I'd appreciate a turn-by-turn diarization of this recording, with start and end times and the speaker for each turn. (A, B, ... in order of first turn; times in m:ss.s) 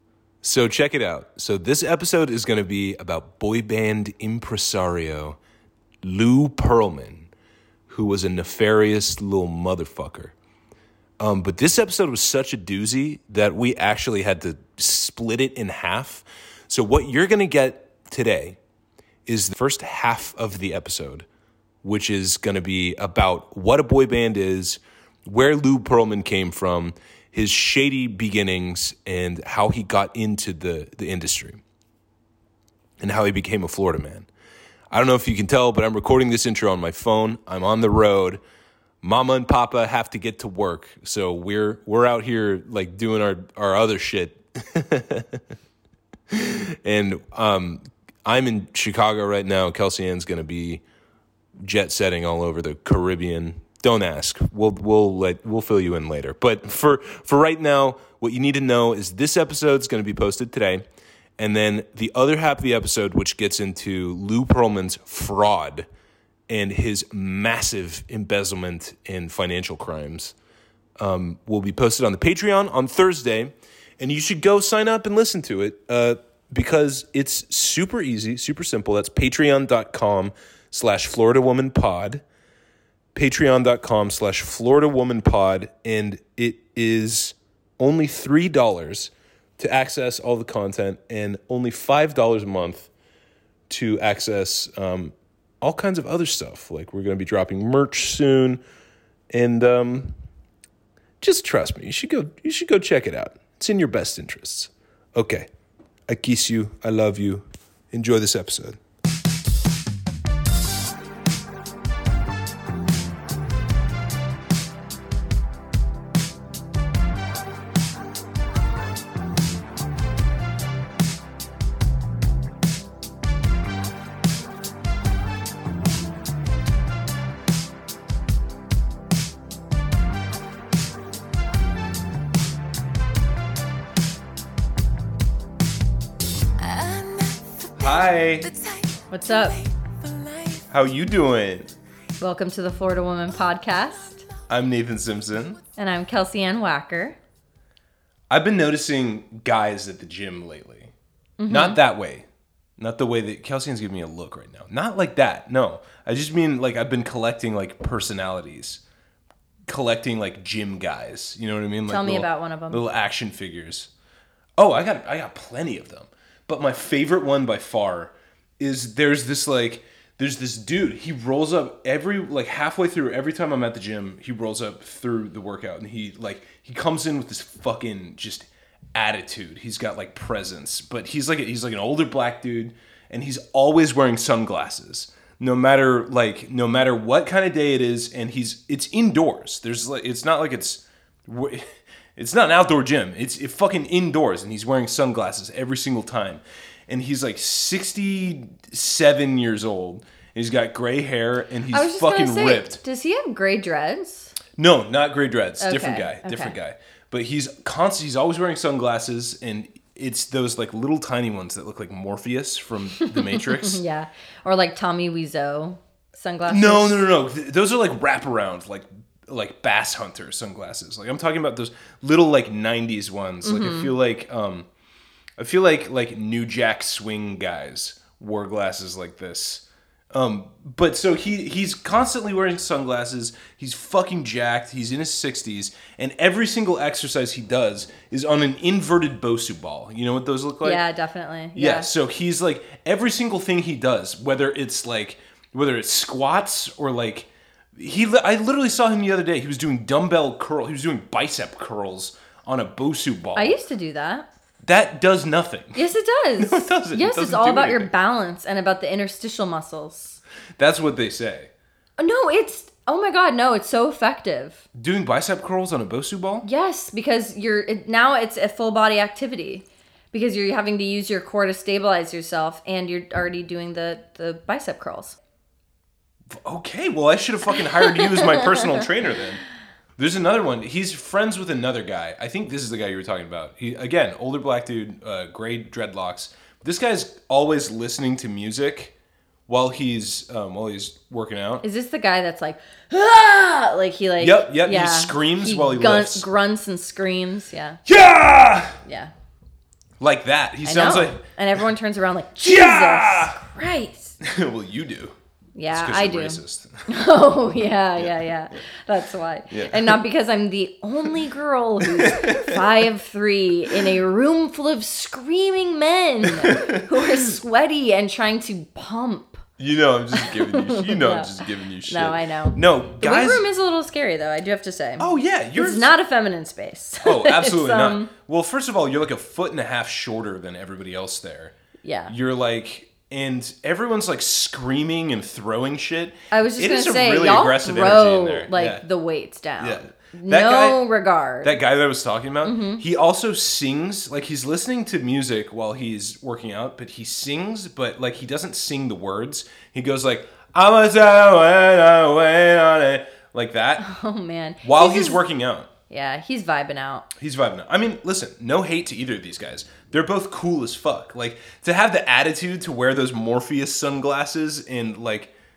0:00.4-0:05.4 A
0:06.0-0:07.3 A
0:07.9-0:10.4 A
0:11.2-0:18.6 A
0:19.2-0:21.3 A
0:21.8-0:31.6 A
0:33.0-0:34.3 A
0:34.9-0:38.4 A
0:39.0-0:45.4 A
0:46.3-0:50.8 A
0:51.6-1:00.8 A
1:01.4-1:05.9 A
1:06.5-1:10.3 A
1:11.0-1:22.2 A
1:23.1-1:32.9 A
1:33.7-1:38.6 A
1:39.3-1:40.2 A
1:41.2-1:45.5 A
1:46.1-1:48.8 A
2:16.6-2:20.7 B
2:17.8-2:18.5 A
2:19.1-2:19.6 C
2:20.7-2:21.7 A
2:22.2-2:24.2 C
2:24.5-2:25.6 A
2:25.8-2:27.2 C
2:28.3-2:30.9 A
2:31.4-2:31.8 C
2:31.5-2:32.2 A
2:32.8-2:38.8 A
2:39.7-2:43.9 A
2:41.9-2:42.8 C
2:44.6-3:22.8 A
3:21.7-3:24.4 C
3:24.6-3:33.8 A
3:25.6-3:26.6 C
3:33.0-3:37.0 C
3:36.5-3:44.7 A
3:43.4-3:43.9 C
3:45.4-4:00.8 A
4:00.6-4:01.9 C
4:01.6-4:13.6 A
4:13.3-4:14.3 C
4:14.6-4:15.8 A
4:15.8-4:20.2 C
4:16.4-4:17.9 A
4:20.6-4:21.5 A
4:22.0-4:24.6 C
4:24.8-4:26.5 A
4:26.4-4:35.2 C
4:36.3-4:39.4 A
4:37.8-4:38.7 C
4:40.0-4:48.9 A
4:49.5-4:51.6 A
4:51.6-4:57.8 C
4:54.2-4:56.2 A
4:57.8-4:58.8 A
4:58.8-4:59.1 C
5:00.0-5:01.2 A
5:00.6-5:04.2 C
5:02.4-5:03.4 A
5:04.2-5:05.1 A
5:05.6-5:19.4 C
5:05.7-5:06.9 A
5:08.0-5:08.3 A
5:09.5-5:10.0 A
5:11.8-5:12.6 A
5:16.2-5:17.3 A
5:19.6-5:23.4 A
5:20.1-5:28.1 C
5:25.0-5:25.9 A
5:27.0-5:31.5 A
5:31.8-5:32.1 C
5:32.1-5:38.8 A
5:36.3-5:41.6 C
5:39.6-5:40.8 A
5:41.4-5:53.8 A
5:42.4-5:42.8 C
5:53.8-5:55.2 C
5:54.6-5:55.7 A
5:55.9-5:57.1 C
5:57.2-6:05.3 A